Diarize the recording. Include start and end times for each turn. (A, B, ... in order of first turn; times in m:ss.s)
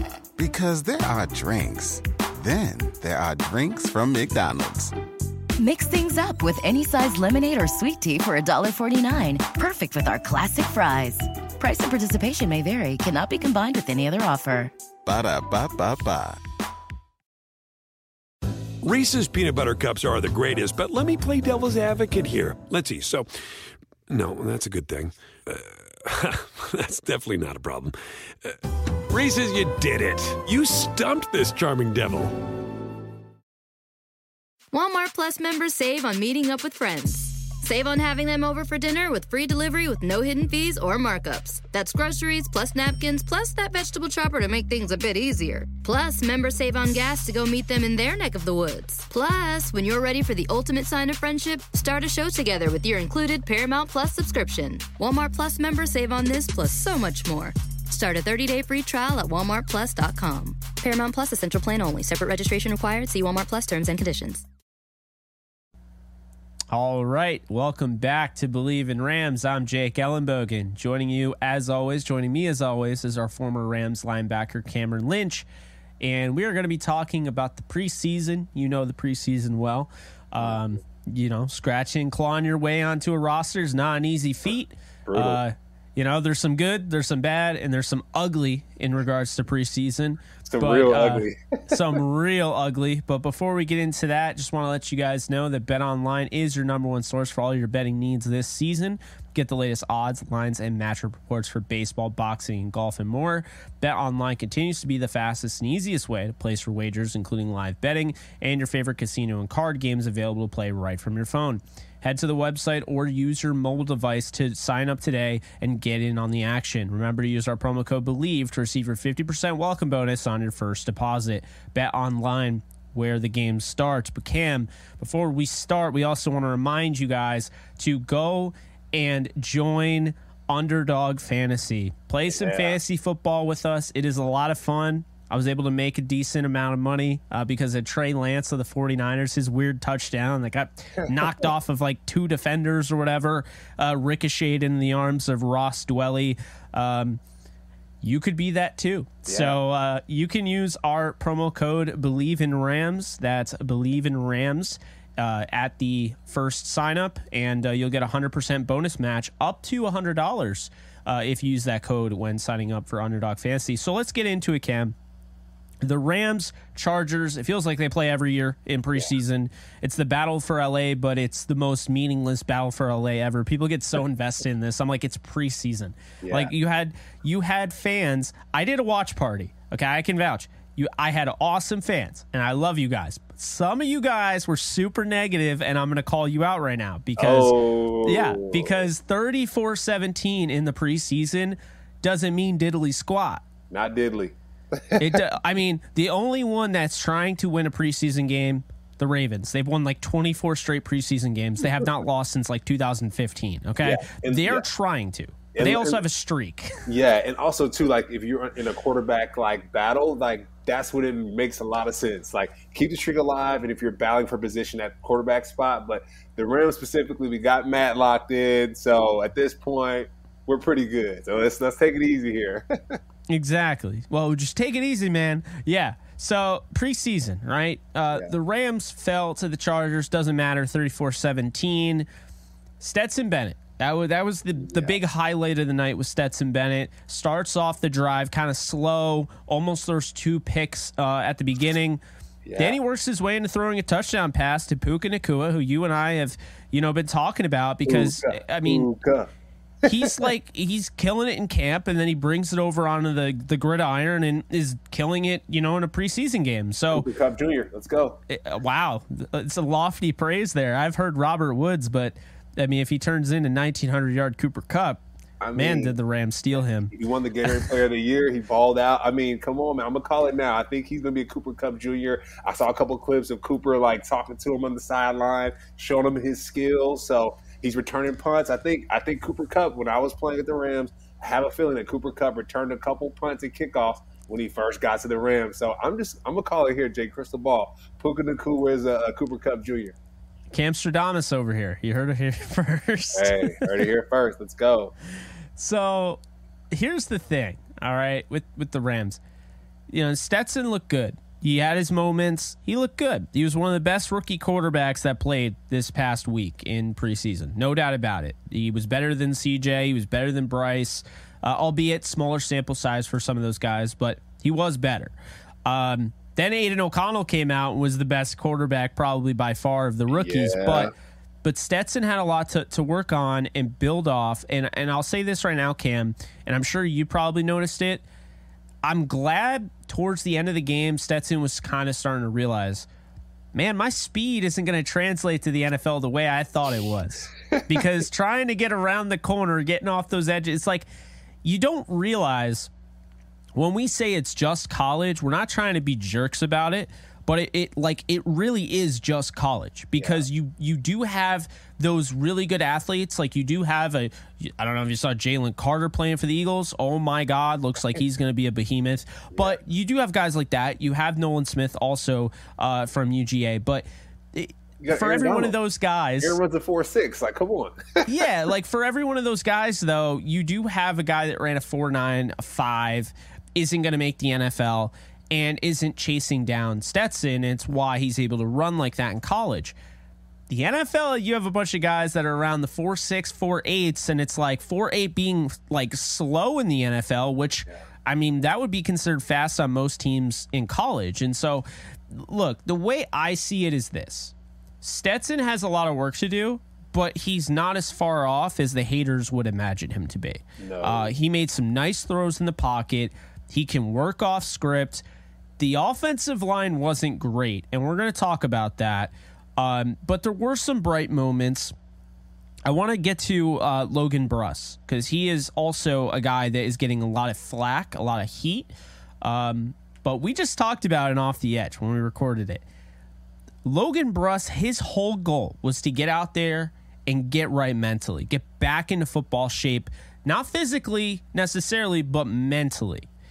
0:00.4-0:04.9 A
0:05.6-0:14.7 B
0:15.0-0:16.4 A
0:18.8-0:23.3 C
0:24.1-0:32.4 C
0:34.7-1:04.4 D
1:06.7-1:15.5 E
1:16.0-2:27.2 E
1:25.1-1:25.4 F
1:30.5-1:31.8 F
2:12.3-2:12.8 F
2:28.0-2:45.0 E
2:29.3-2:29.6 F
2:45.8-3:13.4 E
2:56.2-2:56.5 F
3:07.2-3:08.9 F
3:13.7-3:15.2 F
3:15.0-3:26.8 E
3:23.8-3:24.7 F
3:25.5-3:26.0 F
3:26.9-3:43.0 F
3:43.3-3:52.1 E
3:52.8-4:02.0 E
3:54.6-3:55.0 F
4:02.4-4:02.8 F
4:02.6-4:08.9 E
4:07.8-4:09.3 F
4:09.8-4:10.3 F
4:09.8-4:17.1 E
4:16.9-4:18.2 F
4:18.3-4:25.0 E
4:25.4-4:26.0 F
4:25.6-4:26.9 E
4:26.9-4:50.0 F
4:50.5-4:53.9 E
4:53.1-4:55.0 F
4:55.6-4:56.2 E
4:56.7-4:59.2 E
4:59.9-5:20.9 E
5:20.1-5:20.9 F
5:21.4-5:28.0 E
5:28.8-5:32.9 E
5:33.5-5:40.9 E
5:41.4-5:42.7 E
5:43.6-6:06.4 E
5:50.0-5:50.3 F
5:59.3-5:59.6 F
6:04.8-6:05.6 F
6:06.2-6:08.1 F
6:08.1-6:19.8 E
6:20.5-6:45.0 E
6:40.6-6:41.1 F
6:45.6-6:51.8 E
6:52.7-7:02.6 E
7:03.6-7:13.1 E